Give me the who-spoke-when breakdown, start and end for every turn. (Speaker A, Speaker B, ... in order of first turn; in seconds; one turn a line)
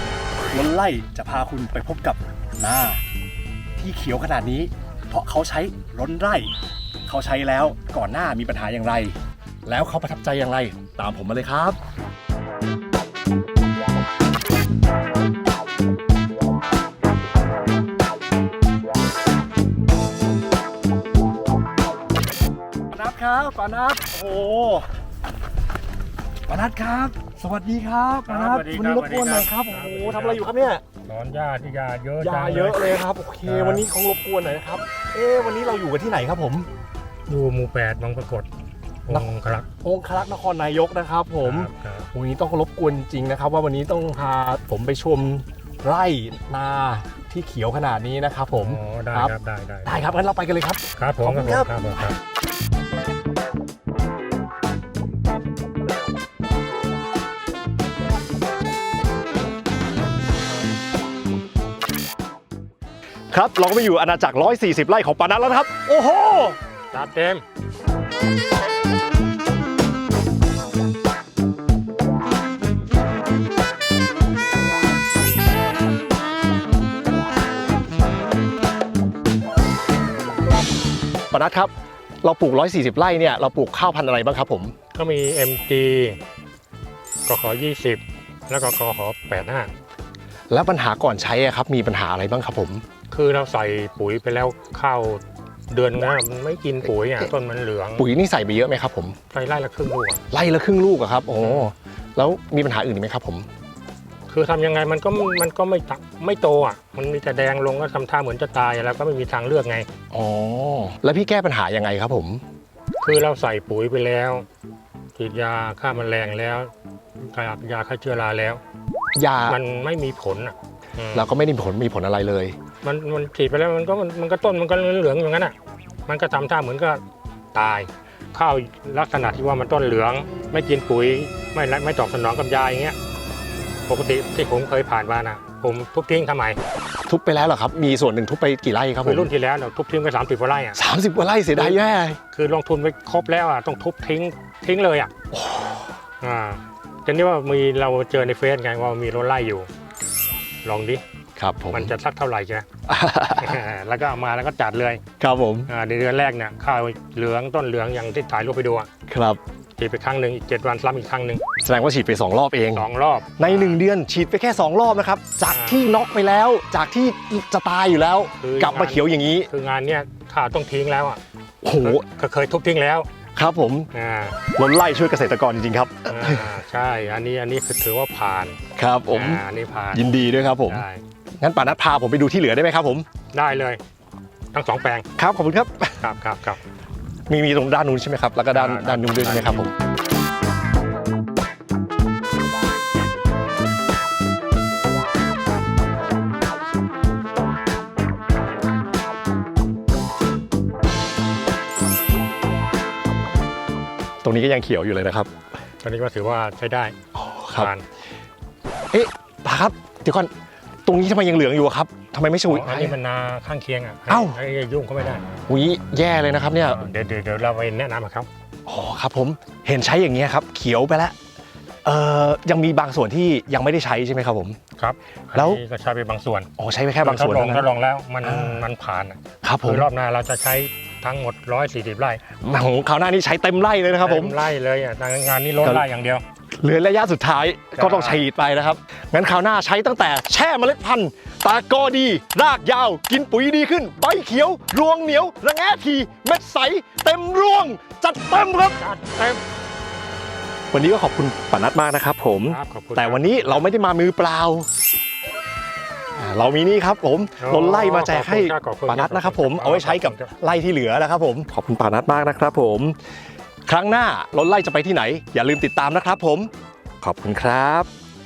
Speaker A: 0.5-3.0
Speaker A: 3.8-6.5
Speaker A: 7.1-11.8
Speaker A: 22.9-24.9
Speaker A: 26.5-30.8
Speaker B: 28.3-30.5
Speaker B: 31.0-32.8
Speaker A: 32.2-36.7
Speaker B: 33.5-33.8
Speaker B: 37.3-38.5
Speaker B: 39.1-39.7
Speaker A: 39.8-49.3
Speaker B: 41.4-42.1
Speaker B: 48.5-49.9
Speaker A: 49.8-51.7
Speaker B: 51.0-52.2
Speaker A: 63.3-66.6
Speaker B: 66.9-67.4
Speaker A: 81.3-81.7
Speaker A: 82.2-84.7
Speaker B: 84.9-86.2
Speaker B: 87.3-89.7
Speaker A: 90.5-92.8
Speaker B: 93.1-98.1
Speaker A: 98.0-99.2
Speaker B: 99.3-100.2
Speaker A: 100.3-103.5
Speaker B: 101.4-101.7
Speaker B: 104.3-109.9
Speaker A: 110.1-112.4
Speaker B: 113.0-114.5
Speaker B: 115.2-116.7
Speaker B: 117.3-118.6
Speaker A: 119.2-119.6
Speaker B: 119.5-121.3
Speaker A: 121.1-122.6
Speaker B: 122.8-125.5
Speaker B: 126.1-127.0
Speaker B: 127.5-133.0
Speaker B: 133.9-136.6
Speaker A: 137.1-139.3
Speaker B: 139.0-140.8
Speaker A: 140.8-142.2
Speaker B: 142.3-145.1
Speaker A: 145.3-145.9
Speaker B: 146.2-149.7
Speaker B: 150.6-151.0
Speaker A: 151.4-151.9
Speaker B: 151.7-152.7
Speaker A: 152.9-153.6
Speaker B: 153.4-155.0
Speaker A: 155.2-155.7
Speaker B: 155.7-158.9
Speaker A: 159.1-159.4
Speaker B: 159.8-161.4
Speaker A: 161.6-169.5
Speaker B: 162.8-163.8
Speaker B: 165.5-165.8
Speaker B: 168.4-171.2
Speaker A: 171.6-172.1
Speaker B: 171.8-173.1
Speaker A: 173.3-173.9
Speaker B: 173.9-174.4
Speaker A: 174.5-176.6
Speaker B: 176.1-178.6
Speaker A: 178.8-180.8
Speaker B: 179.1-180.1
Speaker B: 180.6-181.0
Speaker A: 181.4-183.1
Speaker B: 183.3-183.8
Speaker B: 184.5-185.1
Speaker A: 185.2-186.0
Speaker B: 186.0-186.6
Speaker A: 187.3-189.7
Speaker B: 188.5-189.7
Speaker A: 204.2-205.3
Speaker B: 205.8-207.0
Speaker A: 207.1-207.7
Speaker B: 207.6-207.8
Speaker A: 208.9-210.3
Speaker A: 210.9-213.0
Speaker B: 212.5-215.2
Speaker A: 214.1-214.4
Speaker A: 215.5-216.8
Speaker B: 216.6-218.3
Speaker A: 218.7-221.2
Speaker A: 221.8-224.6
Speaker B: 224.8-226.5
Speaker A: 225.3-225.6
Speaker A: 226.6-227.7
Speaker B: 227.0-232.2
Speaker A: 228.2-228.7
Speaker A: 229.4-229.9
Speaker A: 232.4-234.4
Speaker B: 234.0-236.2
Speaker A: 236.6-248.8
Speaker B: 237.8-238.2
Speaker B: 248.8-249.4
Speaker A: 250.7-254.7
Speaker B: 252.5-253.7
Speaker A: 256.2-263.0
Speaker B: 257.4-260.4
Speaker A: 263.7-267.9